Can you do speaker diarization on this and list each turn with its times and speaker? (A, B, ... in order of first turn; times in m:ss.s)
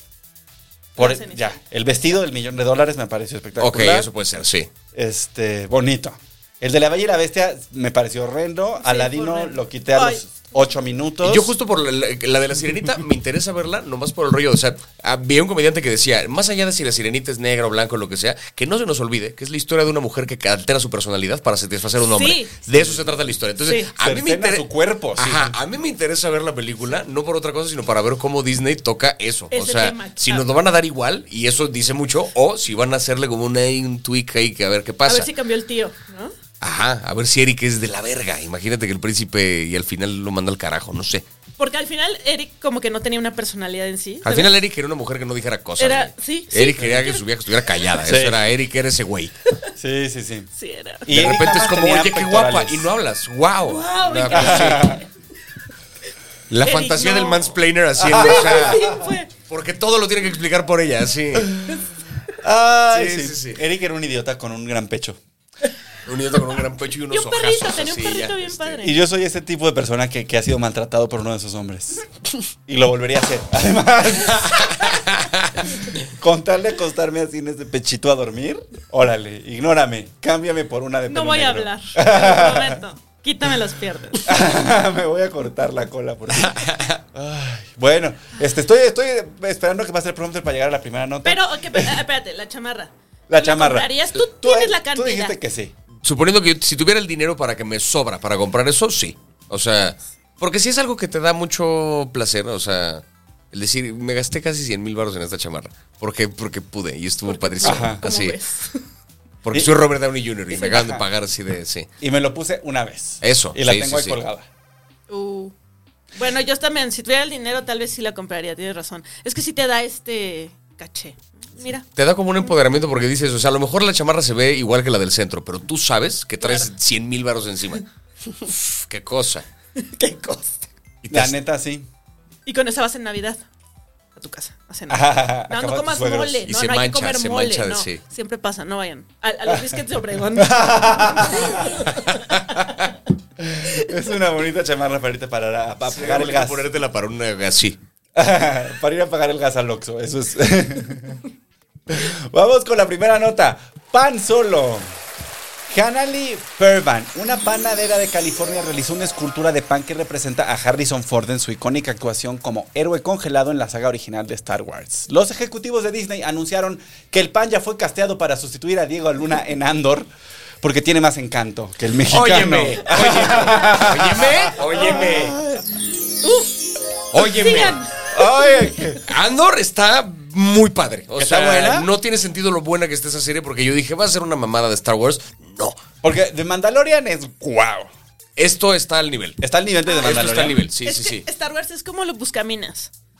0:01.0-0:04.1 A
0:01.0-0:01.6 B
0:03.6-0:04.7 C
0:04.9-0:11.6 A
0:08.8-0:10.2 B
0:11.2-0:35.3 C
0:22.1-0:22.5 B
0:22.7-0:23.0 A
0:23.6-0:23.9 B
0:24.0-0:25.6 A
0:29.5-0:30.5 B
0:35.1-0:36.3 B
0:36.6-0:41.2 C
0:41.6-0:44.5 B
0:44.2-0:49.3 C
0:45.8-0:47.2 B
0:48.0-0:48.4 A
0:49.8-0:50.5 A
0:50.6-0:51.1 B
0:51.0-0:52.9 A
0:51.1-0:55.0 C
0:53.6-0:55.0 B
0:54.3-0:55.0 A
0:56.5-0:58.8 C
0:56.6-0:57.6 B
0:58.0-0:59.0 A
0:58.1-0:59.3 B
0:59.5-1:01.8 C
1:02.4-1:05.2 A
1:02.9-1:03.6 C
1:06.0-1:08.8 C
1:07.1-1:09.0 B
1:08.8-1:12.0 A
1:12.7-1:14.7 A
1:14.4-1:15.7 C
1:16.1-1:22.8 A
1:21.1-1:24.4 B
1:24.2-1:32.0 A
1:26.4-1:27.0 C
1:31.2-1:35.4 B
1:33.3-1:35.7 A
1:36.0-1:48.4 C
1:47.2-1:48.8 B
1:47.6-1:48.0 A
1:49.4-1:51.9 C
1:50.6-1:51.0 A
1:52.0-1:54.5 A
1:53.2-1:54.2 C
1:55.1-1:55.5 B
1:56.2-2:01.8 B
2:01.9-2:07.8 C
2:06.4-2:06.7 B
2:08.8-2:09.5 C
2:09.8-2:10.6 B
2:11.0-2:11.4 C
2:11.1-2:11.9 A
2:12.5-2:13.4 B
2:14.2-2:22.8 B
2:14.9-2:16.4 A
2:16.5-2:18.0 C
2:19.5-2:19.8 A
2:20.4-2:21.8 A
2:21.9-2:22.2 C
2:23.4-2:26.7 A
2:25.9-2:27.8 C
2:28.2-2:31.2 A
2:31.9-2:34.9 A
2:35.7-2:50.1 A
2:50.6-2:55.4 A
2:52.1-2:55.4 C
2:53.5-2:53.8 B
2:54.7-2:55.3 B
2:56.2-2:56.6 B
2:57.1-2:57.8 C
2:57.2-2:59.0 B
2:58.1-2:59.0 A
2:59.1-3:05.8 C
3:01.2-3:01.9 A
3:06.0-3:07.9 A
3:08.4-3:09.4 C
3:09.4-3:10.6 A
3:09.9-3:12.9 B
3:10.0-3:11.3 C